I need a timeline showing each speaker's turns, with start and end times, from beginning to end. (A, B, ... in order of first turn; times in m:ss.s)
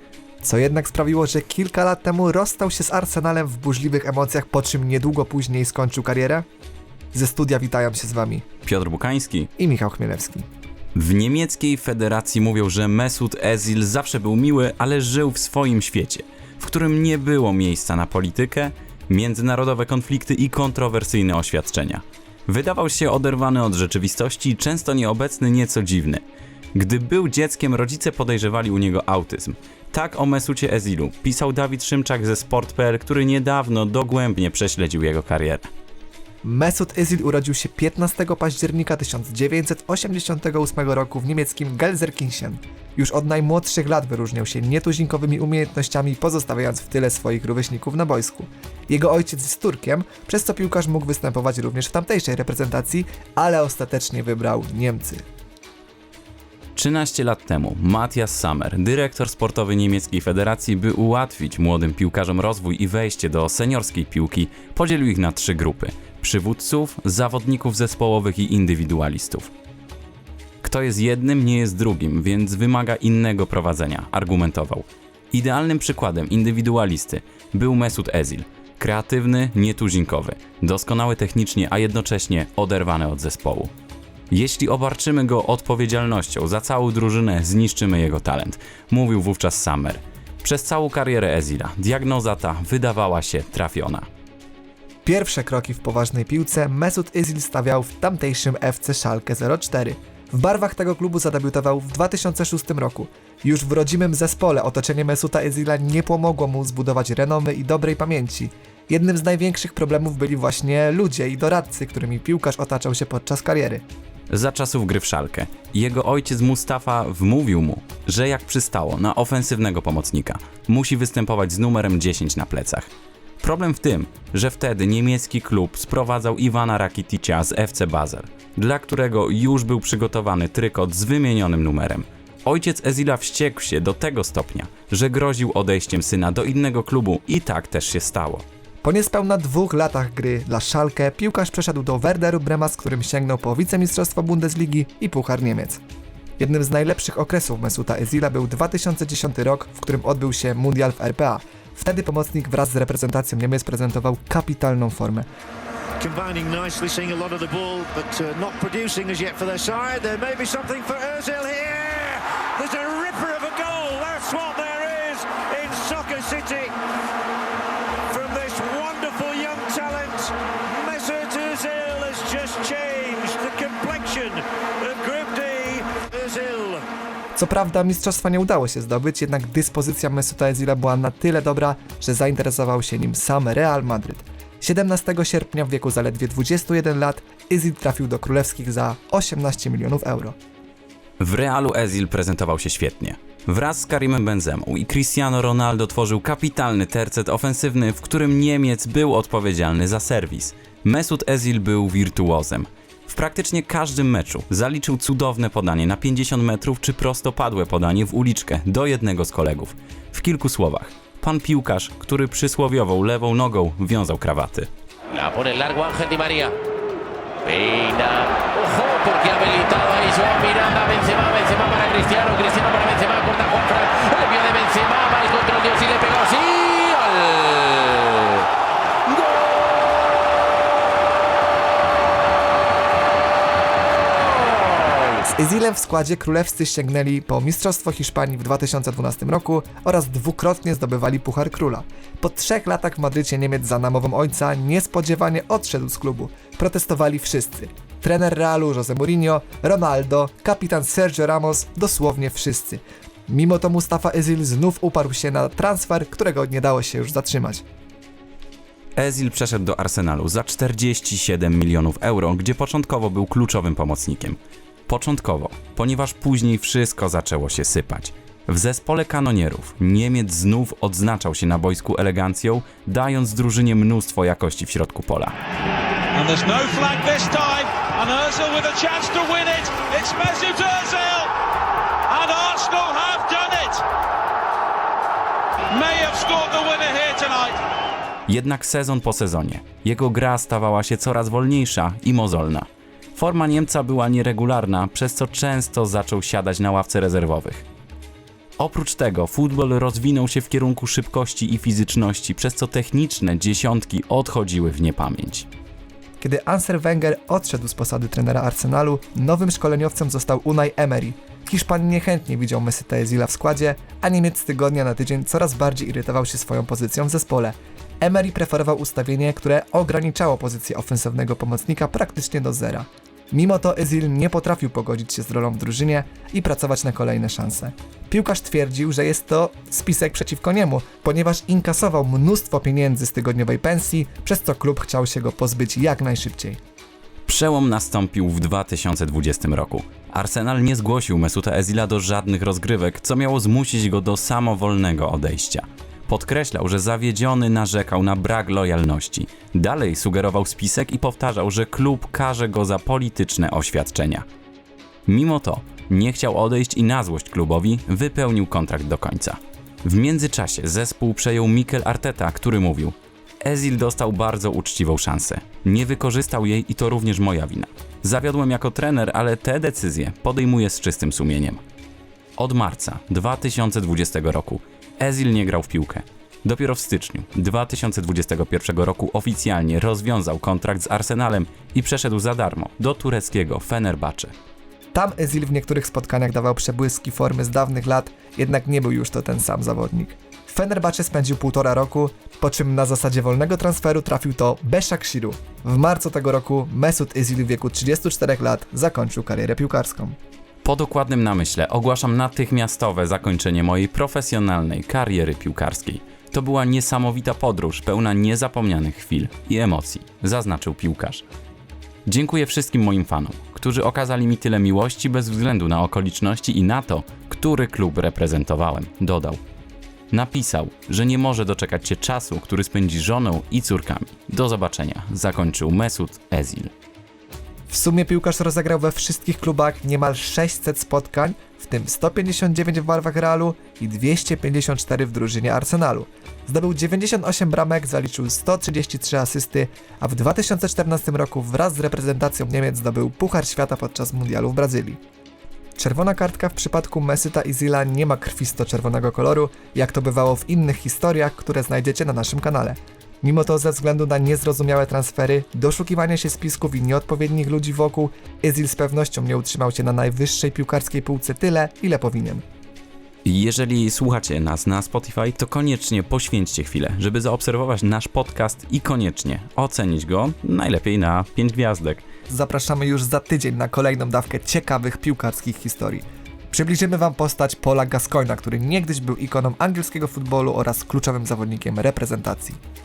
0:00.4-0:06.4 A
0:07.1-0:08.4 A
0:08.6-0:09.5 B
0:09.6-0:10.4 A
0:10.9-0:26.2 B
0:26.7-0:35.7 B
0:36.4-0:55.2 A
0:56.7-1:09.5 B
1:10.6-1:23.7 B
1:24.3-1:34.1 B
1:35.0-1:53.8 A
1:54.3-2:02.9 B
2:03.4-2:18.4 B
2:18.8-2:25.8 A
2:26.4-2:35.3 A
2:36.0-2:46.7 C
2:48.1-2:56.8 C
2:57.3-3:10.3 A
3:11.2-3:34.7 B
3:35.1-3:36.6 D
3:37.4-3:48.4 D
3:49.1-3:49.4 D
3:54.5-3:55.2 D
3:55.2-4:17.6 A
4:19.0-4:35.3 B
4:36.1-4:41.3 E
4:42.1-4:43.8 E
4:45.7-4:47.6 E
4:48.3-4:57.6 B
4:58.6-5:05.5 B
5:06.2-5:36.6 A
5:37.3-5:54.2 B
5:55.0-6:11.6 B
6:12.4-6:24.3 B
6:24.9-6:40.2 A
6:40.6-6:51.2 B
6:52.0-6:59.4 B
7:00.1-7:06.7 B
7:07.7-7:25.0 A
7:25.8-7:42.4 A
7:43.2-7:52.0 B
7:52.3-8:02.6 A